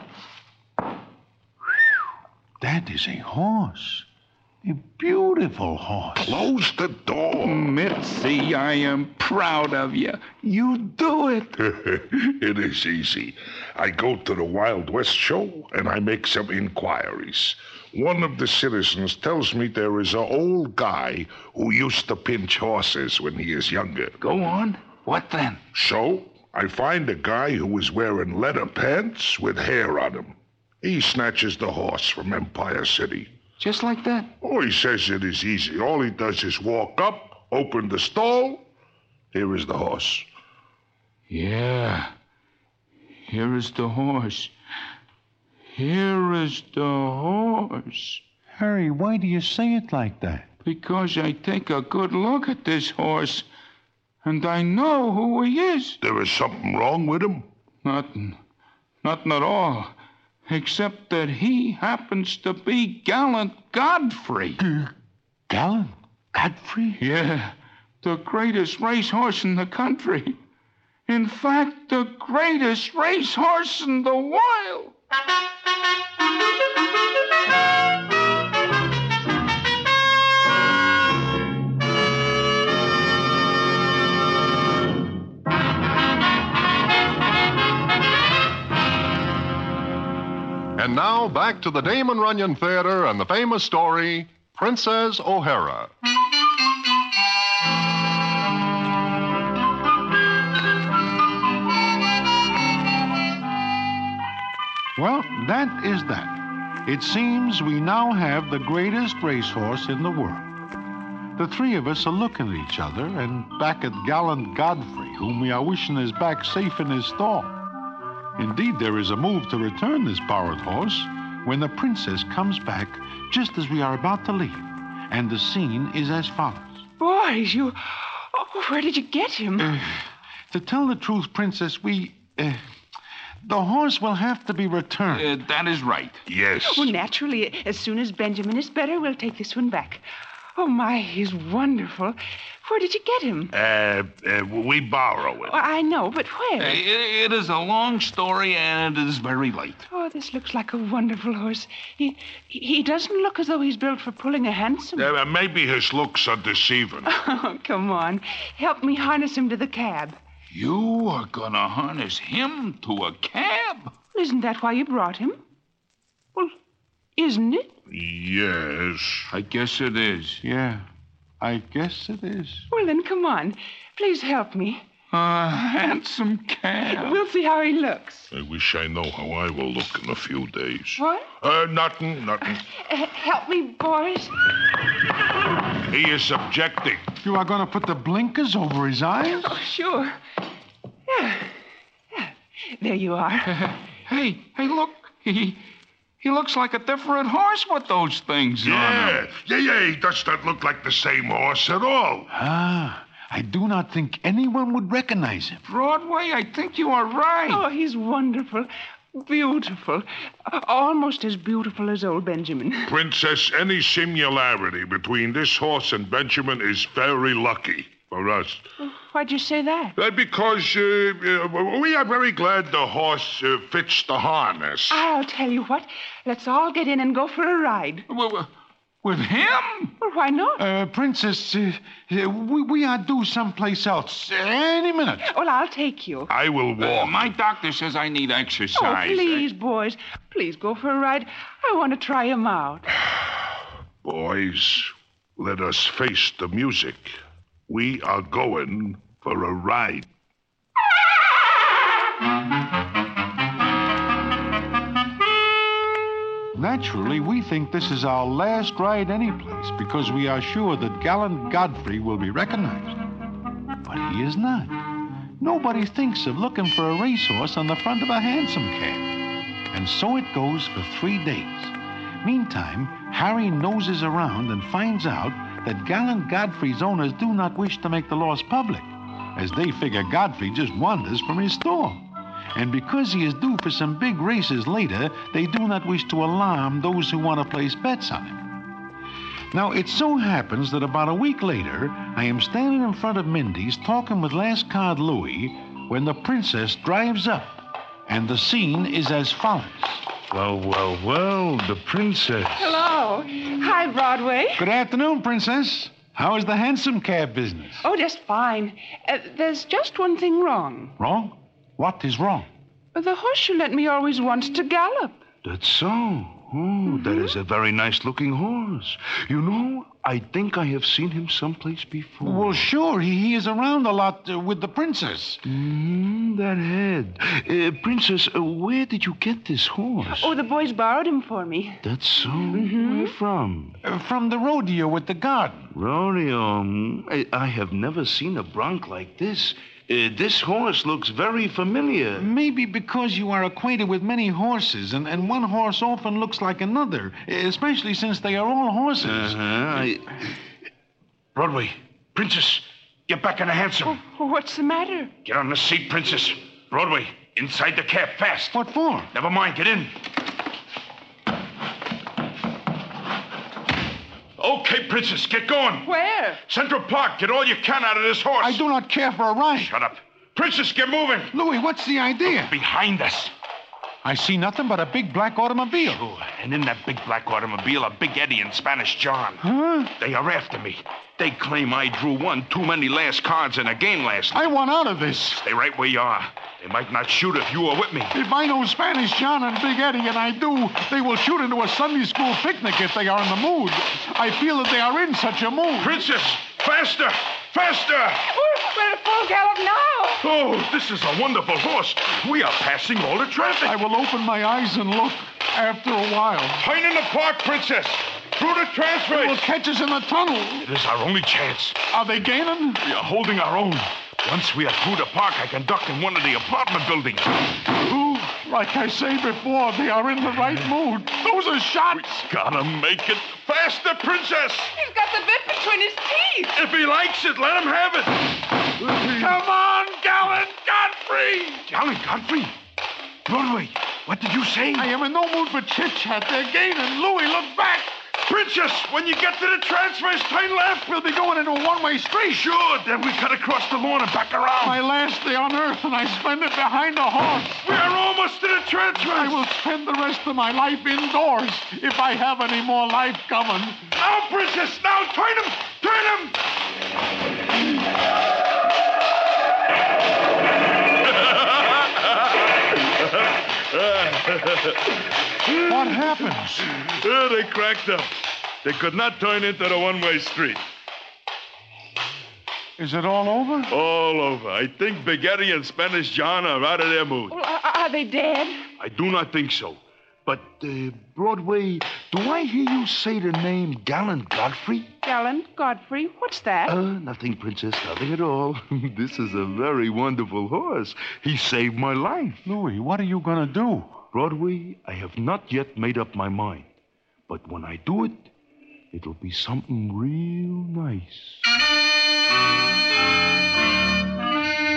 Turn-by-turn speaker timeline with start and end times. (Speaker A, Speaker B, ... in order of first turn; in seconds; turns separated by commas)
Speaker A: 2.6-4.1, Speaker A: 4.6-6.5, Speaker B: 6.2-7.7, Speaker C: 7.4-11.5, Speaker B: 11.6-24.2, Speaker C: 24.2-25.6, Speaker B: 25.7-33.3, Speaker C: 33.6-34.3, Speaker B: 34.4-38.6, Speaker B: 39.3-40.3, Speaker C: 41.3-42.1, Speaker C: 43.2-44.5, Speaker C: 45.7-48.2, Speaker A: 48.5-50.5, Speaker C: 50.6-53.5, Speaker C: 54.2-56.0, Speaker B: 56.0-57.5, Speaker C: 57.8-58.4, Speaker C: 59.0-59.9, Speaker C: 60.5-64.6, Speaker A: 64.6-64.9, Speaker A: 65.5-67.0, Speaker C: 67.0-70.4, Speaker C: 71.1-74.9, Speaker D: 90.8-95.9, Speaker A: 105.0-110.5, Speaker A: 111.4-117.5, Speaker A: 118.4-126.8, Speaker E: 127.0-129.7, Speaker A: 129.6-132.6, Speaker A: 133.4-135.3, Speaker C: 135.1-136.2, Speaker B: 136.2-136.9, Speaker E: 136.6-140.0, Speaker E: 140.6-143.5, Speaker B: 143.5-145.6, Speaker E: 145.4-146.8, Speaker C: 146.6-149.9, Speaker E: 149.9-155.1, Speaker B: 154.9-157.1, Speaker E: 157.1-160.2, Speaker C: 160.5-163.9, Speaker E: 164.1-165.4, Speaker E: 167.2-167.7, Speaker B: 167.9-169.3, Speaker C: 169.3-170.4, Speaker A: 170.4-170.9, Speaker A: 171.4-172.7, Speaker E: 172.7-174.8, Speaker C: 175.1-177.2, Speaker E: 176.9-178.3, Speaker B: 178.3-182.6, Speaker E: 181.0-181.3, Speaker E: 182.7-184.3, Speaker B: 185.9-187.1, Speaker A: 187.2-189.6, Speaker E: 189.3-190.2, Speaker E: 191.1-191.5, Speaker E: 192.1-193.6, Speaker C: 193.5-195.6, Speaker C: 196.2-199.2, Speaker B: 198.6-202.3, Speaker A: 202.3-205.6, Speaker C: 205.7-207.6, Speaker E: 207.5-212.9, Speaker B: 212.9-218.6, Speaker E: 218.8-219.9, Speaker B: 219.9-225.0, Speaker E: 224.9-228.1, Speaker C: 228.1-228.5, Speaker C: 229.0-229.9, Speaker E: 230.0-230.6, Speaker A: 230.6-235.3, Speaker E: 235.2-236.3, Speaker B: 236.3-237.3, Speaker C: 236.8-239.4, Speaker E: 238.8-242.9, Speaker B: 244.0-247.2, Speaker B: 247.7-250.1, Speaker A: 256.5-263.0, Speaker A: 263.8-264.8, Speaker A: 265.4-269.1, Speaker A: 269.7-288.5, Speaker A: 289.5-300.0, Speaker F: 300.3-302.8, Speaker E: 302.6-304.6, Speaker A: 304.6-307.9, Speaker E: 307.8-310.9, Speaker A: 311.0-312.5, Speaker E: 312.9-315.2, Speaker F: 315.4-322.6, Speaker E: 316.9-317.3, Speaker A: 322.2-325.4, Speaker F: 325.4-330.3, Speaker E: 330.1-331.8, Speaker F: 331.8-333.8, Speaker E: 332.5-333.1, Speaker A: 333.8-335.7, Speaker F: 335.7-342.3, Speaker A: 342.1-349.8, Speaker F: 349.0-350.3, Speaker F: 351.4-354.0, Speaker E: 353.9-355.1, Speaker F: 355.2-358.6, Speaker A: 358.5-359.1, Speaker F: 359.1-359.9, Speaker F: 364.4-365.9, Speaker E: 365.9-366.4, Speaker F: 366.5-368.6, Speaker A: 368.4-369.7, Speaker F: 369.6-371.3, Speaker A: 371.3-372.5, Speaker F: 372.2-373.3, Speaker A: 374.0-376.0, Speaker F: 375.8-384.5, Speaker A: 379.4-379.9, Speaker A: 384.3-385.4, Speaker F: 385.4-388.1, Speaker A: 388.1-396.0, Speaker F: 395.8-398.2, Speaker E: 398.3-400.2, Speaker F: 400.2-403.8, Speaker A: 403.6-406.6, Speaker F: 406.6-409.4, Speaker A: 409.1-410.7, Speaker F: 410.6-411.8, Speaker A: 411.9-412.8, Speaker F: 412.8-418.3, Speaker A: 418.4-422.2, Speaker F: 421.9-424.7, Speaker E: 424.8-426.5, Speaker F: 426.5-429.4, Speaker A: 428.9-431.6, Speaker F: 431.5-432.6, Speaker F: 433.2-434.9, Speaker A: 434.7-438.0, Speaker F: 438.2-440.9, Speaker A: 440.8-442.4, Speaker F: 442.3-444.8, Speaker A: 444.6-447.6, Speaker F: 447.6-449.4, Speaker A: 449.0-453.9, Speaker F: 453.9-456.4, Speaker F: 461.0-464.9, Speaker F: 465.4-468.1, Speaker A: 465.6-466.6, Speaker F: 468.6-470.6, Speaker A: 472.8-473.7, Speaker F: 473.7-477.4, Speaker E: 477.3-478.6, Speaker F: 478.8-484.9, Speaker E: 485.0-486.8, Speaker F: 486.6-492.5, Speaker A: 492.4-493.9, Speaker F: 494.1-496.7, Speaker F: 497.3-498.3, Speaker F: 498.9-501.4